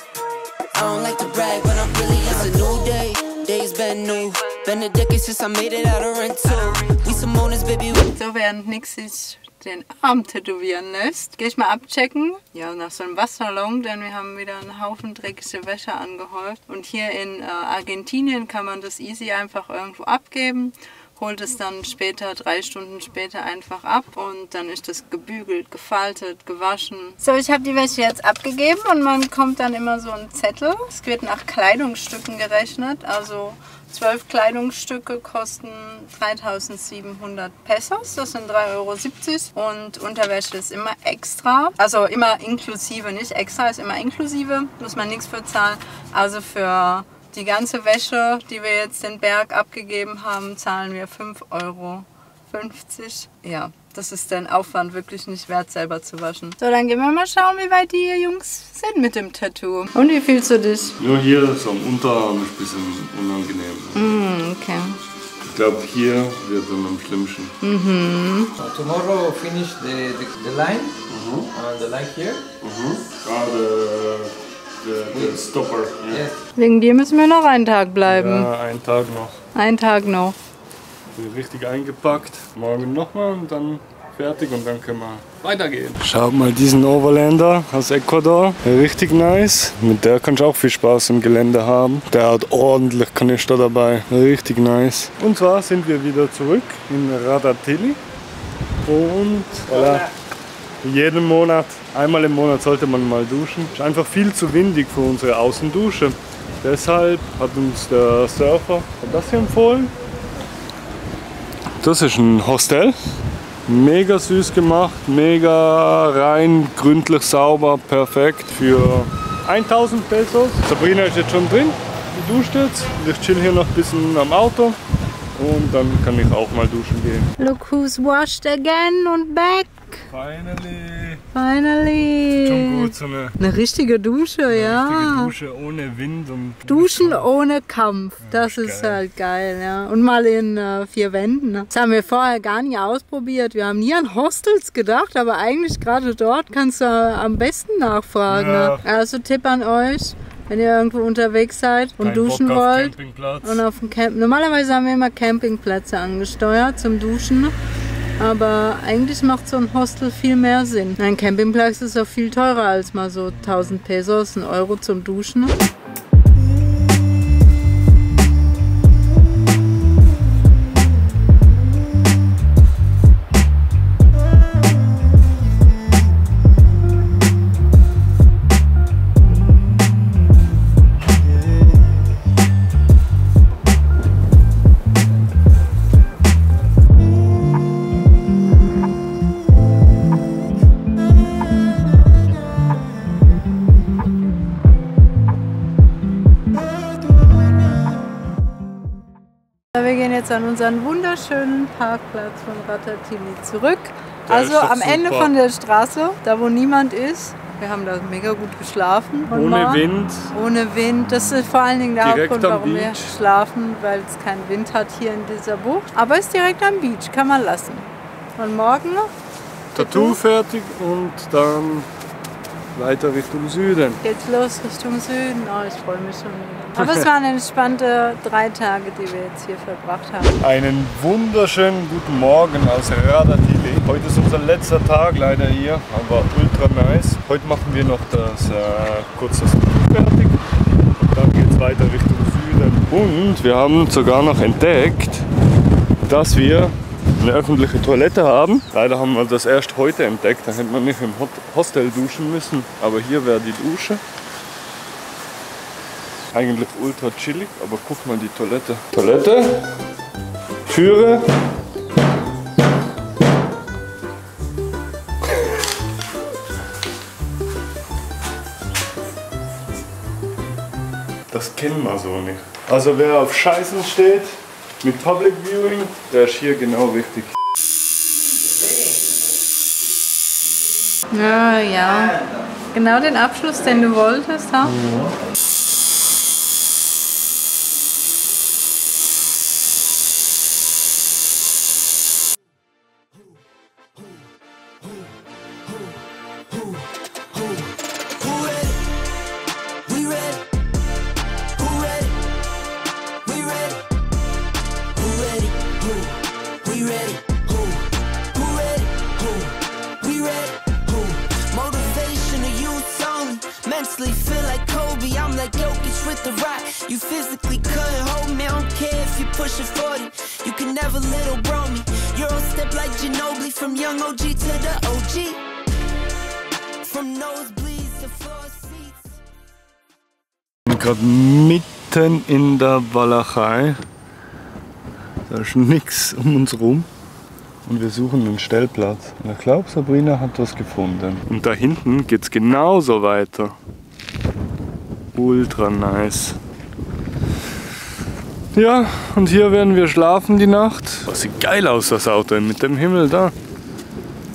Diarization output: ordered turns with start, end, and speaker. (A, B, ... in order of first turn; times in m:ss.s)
0:00.7-0:08.1 A
0:08.2-1:01.0 B
1:01.0-1:04.1 C
1:04.0-1:05.0 B
1:05.4-1:07.5 C
1:07.6-1:08.5 B
1:08.6-1:11.0 D
1:11.1-1:11.5 C
1:11.5-1:12.5 D
1:12.6-1:16.2 C
1:15.1-1:15.4 D
1:16.1-1:16.4 D
1:16.6-1:18.5 B
1:18.0-1:19.4 C
1:19.6-1:20.4 B
1:21.1-1:38.0 C
1:38.8-1:40.1 C
1:40.8-1:49.9 C
1:51.8-2:04.8 C
2:05.4-2:07.3 C
2:07.4-2:10.1 B
2:10.1-2:11.2 C
2:11.3-2:15.3 B
2:12.4-2:13.4 C
2:14.5-2:17.2 C
2:16.7-2:37.6 B
2:18.2-2:19.0 C
2:28.3-2:28.8 C
2:32.0-2:33.6 C
2:38.2-2:45.6 B
2:43.3-2:43.8 C
3:19.7-3:39.1 B
3:24.3-3:25.3 C
3:29.3-3:30.3 C
3:32.0-3:33.1 C
3:39.7-3:41.9 C
3:39.8-3:40.2 B
3:42.7-3:44.0 C
3:44.0-3:50.4 B
3:46.8-3:47.1 C
3:50.4-4:05.3 C
4:06.1-4:14.0 C
4:16.3-4:19.7 C
4:20.7-4:21.3 C
4:31.3-4:37.4 C
4:41.1-4:42.2 B
4:42.7-4:44.8 B
4:44.8-4:45.1 C
4:56.5-4:56.8 A
4:57.4-4:58.8 A
4:59.9-5:00.5 A
5:01.6-5:02.2 A
5:03.2-5:03.8 A
5:04.9-5:25.4 A
5:26.8-5:29.2 A
5:30.7-5:33.8 C
5:35.3-5:36.9 C
5:37.6-5:43.6 C
5:45.1-5:46.4 C
5:48.5-5:53.4 C